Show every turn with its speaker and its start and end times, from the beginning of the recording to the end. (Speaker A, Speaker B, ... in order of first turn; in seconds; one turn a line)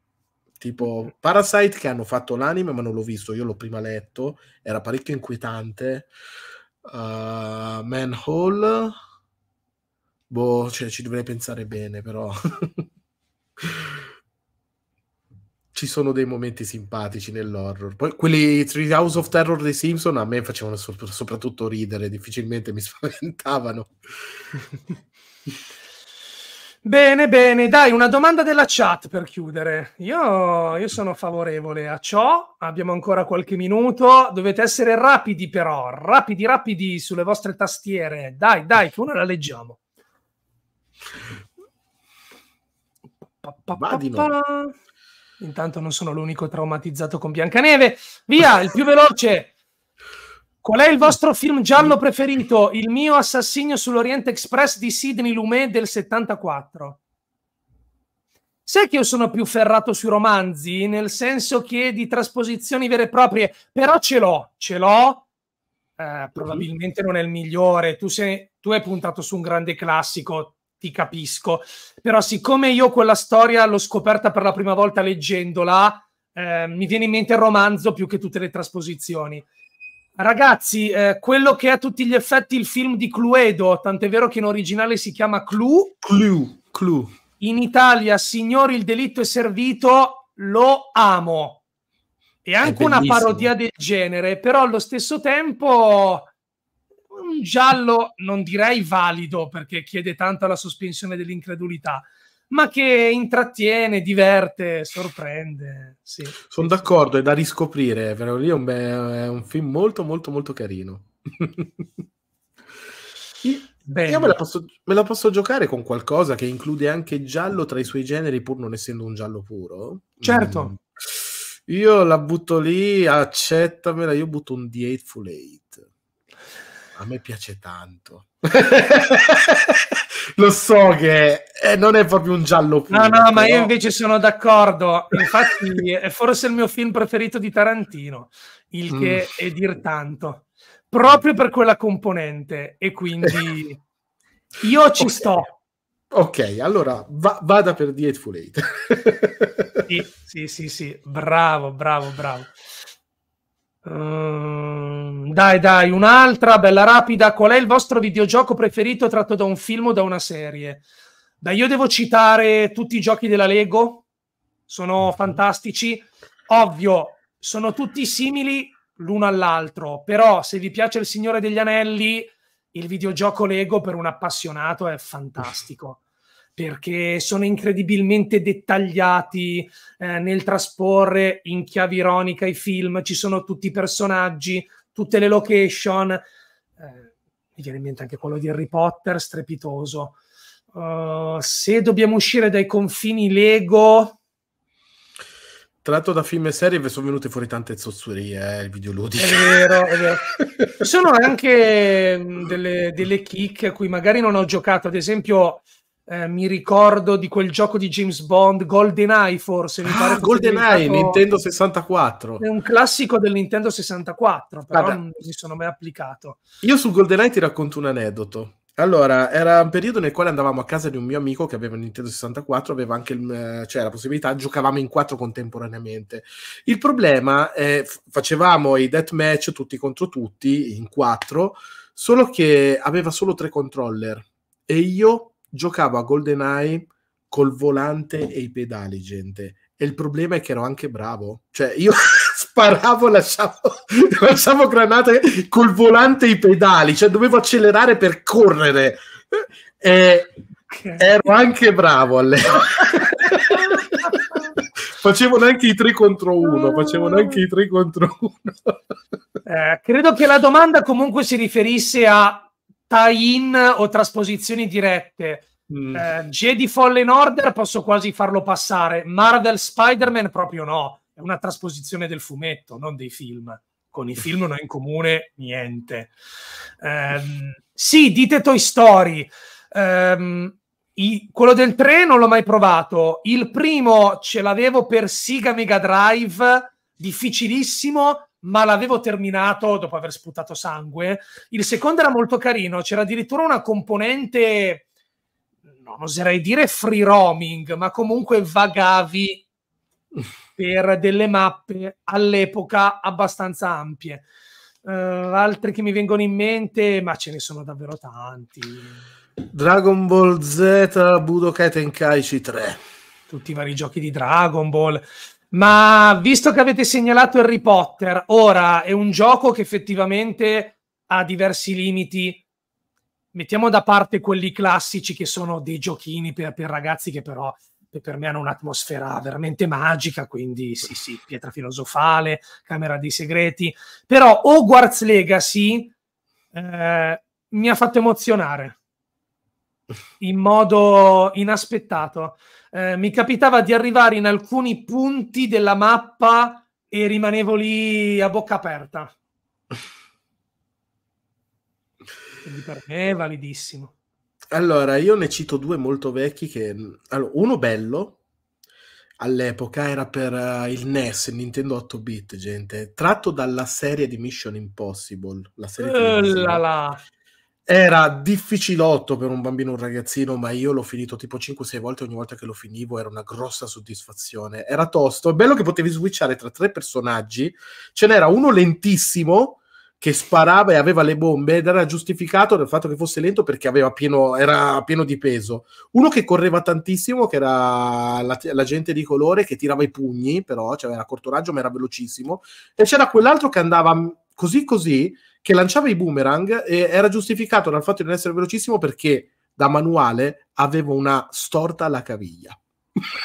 Speaker A: 0.6-6.1
Speaker A: 6.8-9.0
Speaker A: 10.3-12.9
Speaker A: 13.6-14.0
Speaker A: 15.7-24.0
Speaker B: 26.8-39.8
Speaker B: 43.4-44.7
Speaker A: 43.8-44.3
Speaker B: 45.4-49.5
Speaker B: 50.6-57.0
Speaker B: 58.7-65.2
Speaker B: 66.0-79.5
Speaker A: 66.4-66.7
Speaker B: 80.2-86.0
Speaker A: 86.0-87.1
Speaker B: 87.4-91.6
Speaker B: 92.5-96.3
Speaker A: 92.6-93.5
Speaker B: 97.1-106.9
Speaker A: 106.5-111.8
Speaker A: 113.4-125.8
Speaker B: 113.8-114.4
Speaker B: 120.2-120.7
Speaker A: 127.0-133.7
Speaker B: 132.9-143.8
Speaker A: 138.9-139.2
Speaker B: 144.6-145.5
Speaker A: 145.0-145.3
Speaker A: 146.1-149.8
Speaker B: 149.9-152.5
Speaker B: 153.8-160.8
Speaker B: 161.4-164.0
Speaker B: 164.7-176.0
Speaker B: 176.6-186.2
Speaker B: 186.8-190.2
Speaker B: 190.7-194.2
Speaker A: 195.8-200.8
Speaker B: 199.2-200.2
Speaker B: 200.8-211.2
Speaker A: 209.8-212.4
Speaker B: 212.4-216.4
Speaker A: 214.7-215.0
Speaker A: 216.6-250.3
Speaker B: 250.7-251.3
Speaker A: 251.0-258.8
Speaker B: 253.2-253.8
Speaker B: 256.4-257.4
Speaker B: 259.4-276.1
Speaker A: 265.7-266.1
Speaker B: 276.8-294.9
Speaker B: 295.8-299.4
Speaker B: 300.6-304.2
Speaker B: 304.8-309.0
Speaker A: 309.5-312.8
Speaker B: 313.3-322.4
Speaker B: 323.3-335.9
Speaker B: 336.5-338.8
Speaker B: 340.2-349.1
Speaker B: 352.4-353.9
Speaker A: 354.5-358.2
Speaker A: 359.2-366.6
Speaker B: 365.8-367.0
Speaker A: 367.7-402.6